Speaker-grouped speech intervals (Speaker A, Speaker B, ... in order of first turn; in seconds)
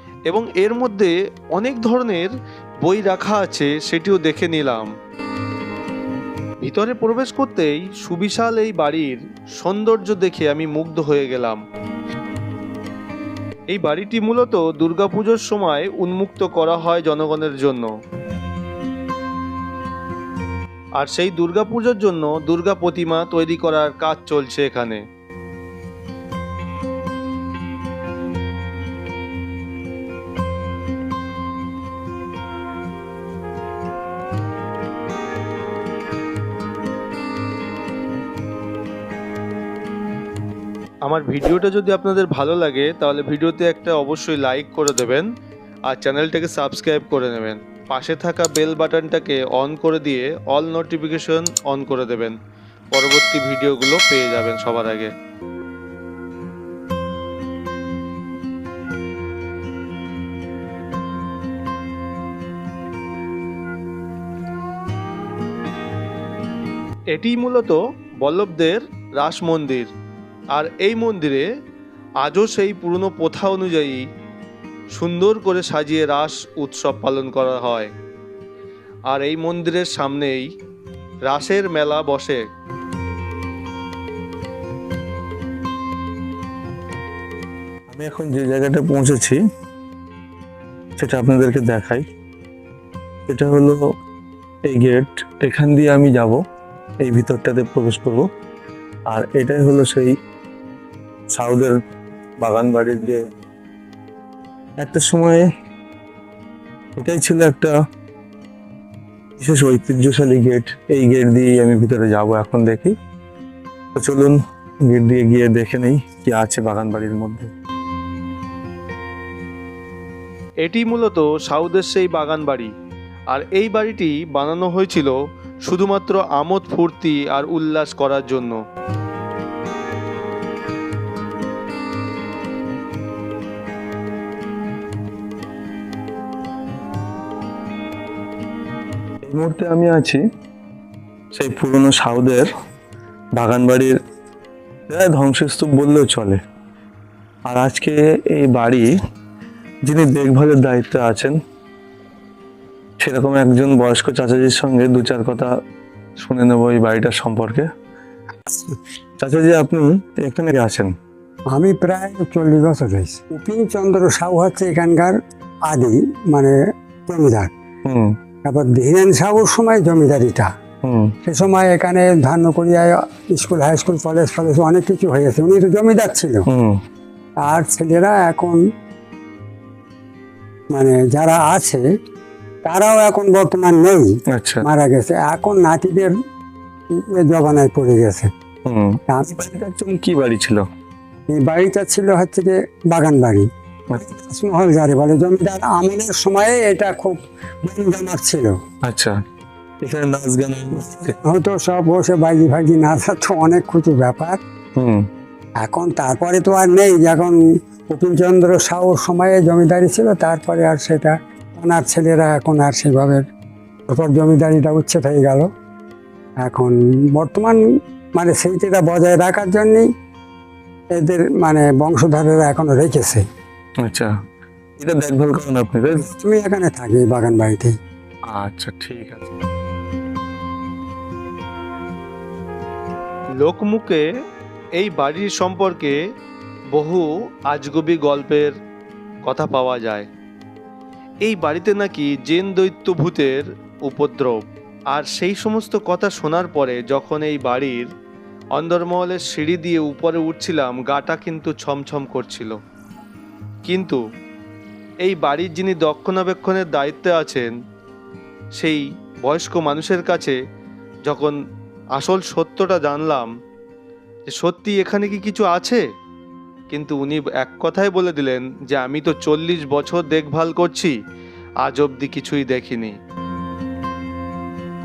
Speaker A: 0.3-4.9, 6.6-11.6, 13.7-17.9, 21.0-25.0, 41.1-45.3, 45.9-52.4, 52.9-55.1, 67.1-69.9, 70.5-71.5, 72.2-74.0, 75.0-77.9, 79.1-80.5, 81.3-82.4, 120.6-122.7, 123.3-128.6, 233.4-234.1, 234.8-236.0, 236.7-238.5, 239.3-240.1, 241.2-247.9, 248.6-252.6, 253.7-254.0, 255.1-257.5, 258.6-260.4, 261.1-261.4, 262.0-263.3, 264.3-265.8, 266.7-270.9, 271.6-273.0
Speaker B: 87.9-89.4, 91.0-92.0, 93.3-93.8, 94.7-96.4, 97.0-98.3, 99.1-100.1, 101.3-101.8, 102.4-103.2, 104.8-105.5, 107.0-107.7, 109.4-112.9, 114.0-114.4, 114.9-117.5, 139.2-140.2, 141.3-142.5, 143.4-143.9, 144.9-146.4, 147.5-148.9, 149.9-151.3, 153.0-155.5, 156.2-157.7, 159.2-160.9, 184.3-184.6, 188.7-190.6, 198.8-199.1, 199.8-201.2, 223.8-224.1, 224.8-226.1, 228.3-229.3
Speaker C: 158.5-158.7, 161.5-165.2, 165.7-166.6, 167.1-167.5, 168.5-170.5, 171.2-176.5, 177.4-178.6, 180.8-181.8, 182.7-184.1, 184.6-186.1, 187.0-188.3, 189.1-189.3, 191.3-198.6, 201.2-204.4, 205.6-213.2, 213.9-215.5, 216.4-217.6, 218.2-219.9, 220.9-223.2, 225.9-227.8